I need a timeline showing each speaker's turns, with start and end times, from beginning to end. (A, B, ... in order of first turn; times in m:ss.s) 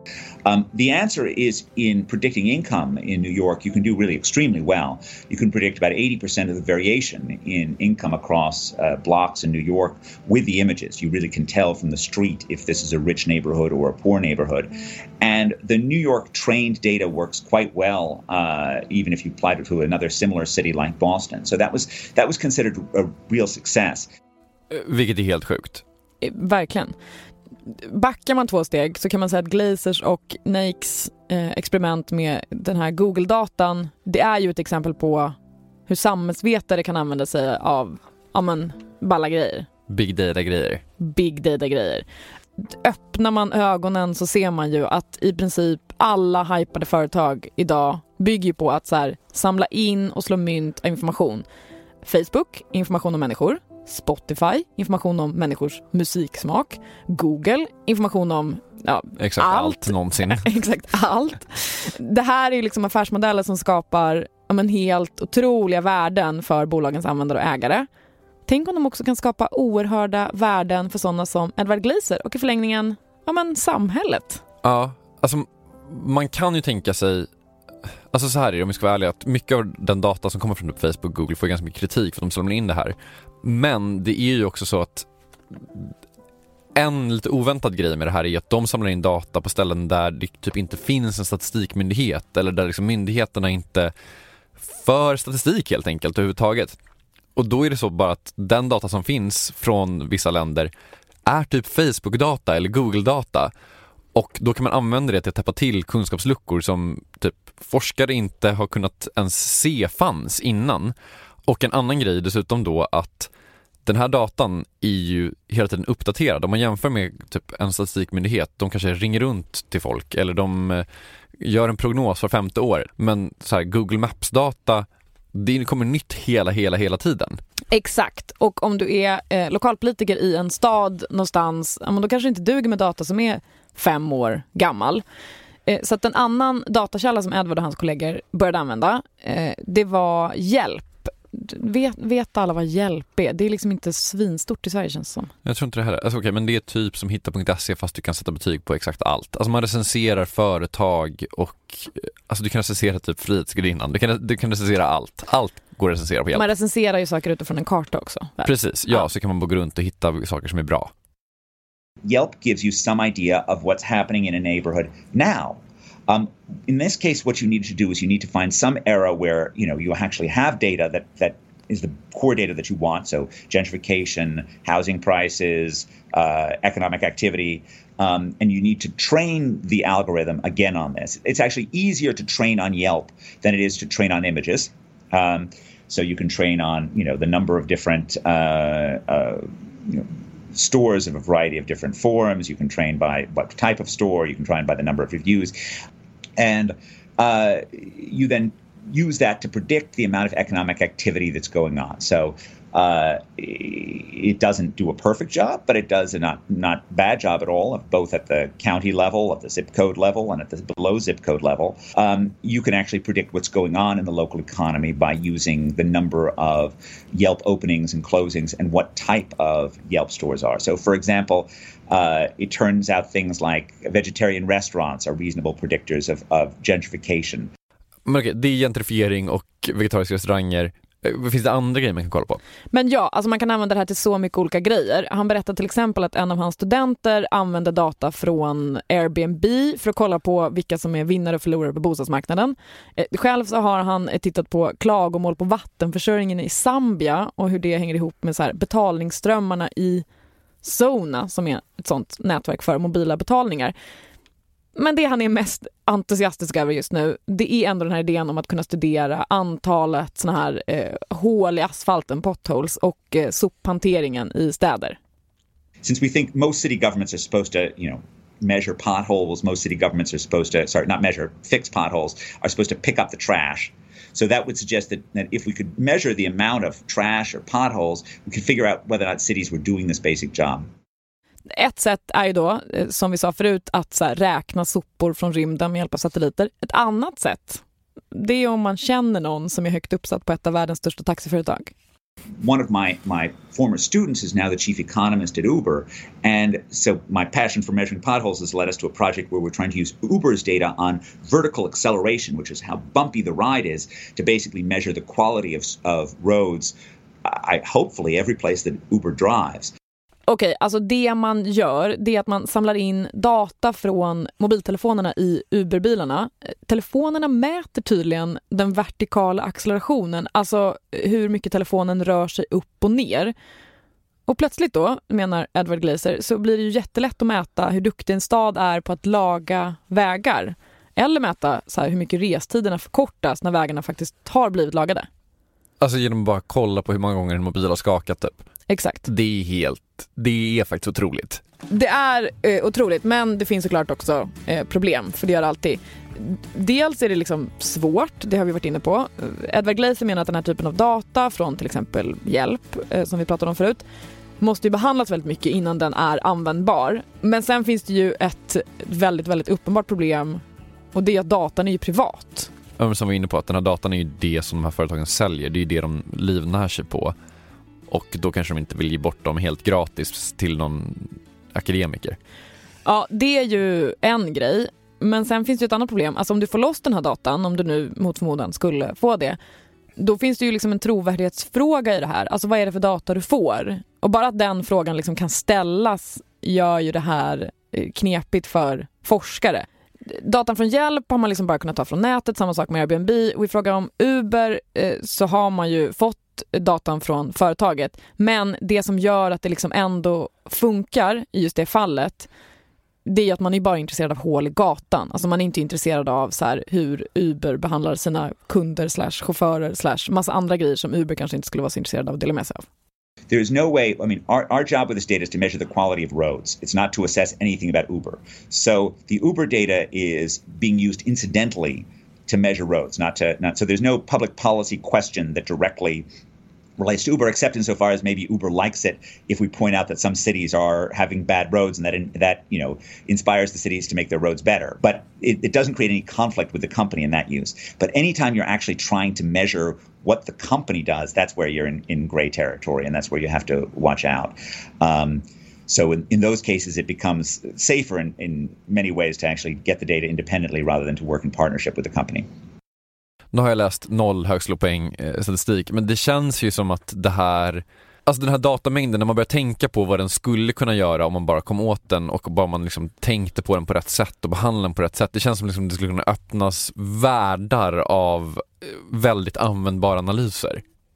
0:00.4-0:24.1 A
0:24.7-0:25.8 B
0:26.2-0:26.9 C
0:27.7-0:35.3 C
0:35.9-0:39.7 C
0:39.9-0:40.8 B
0:41.0-0:42.0 C
0:42.6-0:51.4 C
0:52.0-1:07.9 C
0:59.2-1:00.5 B
1:08.5-1:14.4 C
1:14.6-1:17.3 B
1:18.1-1:25.9 B
1:26.7-1:33.9 B
1:34.6-1:36.8 B
1:37.4-1:40.7 B
1:41.2-1:43.5 B
1:44.1-1:53.3 B
1:53.8-2:00.8 B
2:01.4-2:07.4 B
2:07.7-2:15.0 C
2:15.6-2:25.3 C
2:25.4-2:36.4 B
2:36.3-2:39.0 C
2:38.4-2:40.9 B
2:42.0-3:15.5 A
3:16.4-3:47.5 A
3:48.0-3:52.4 B
3:52.7-4:10.0 C
4:10.6-4:13.7 C
4:14.7-4:25.0 C
4:25.8-4:40.6 A
4:41.5-4:51.7 C
4:52.4-5:09.7 A
5:10.3-5:23.3 C
5:24.3-5:35.1 C
5:35.8-5:38.4 B
5:38.7-5:39.0 C
5:39.0-5:41.4 B
5:41.7-5:53.8 C
5:54.4-6:00.4 C
6:00.9-6:02.5 C
6:02.8-6:07.1 B
6:07.9-6:12.2 B
6:12.8-6:19.4 C
6:20.0-6:42.3 C
6:43.0-6:52.6 C
6:53.3-7:06.1 A
7:06.8-7:32.3 A
7:33.3-7:50.6 B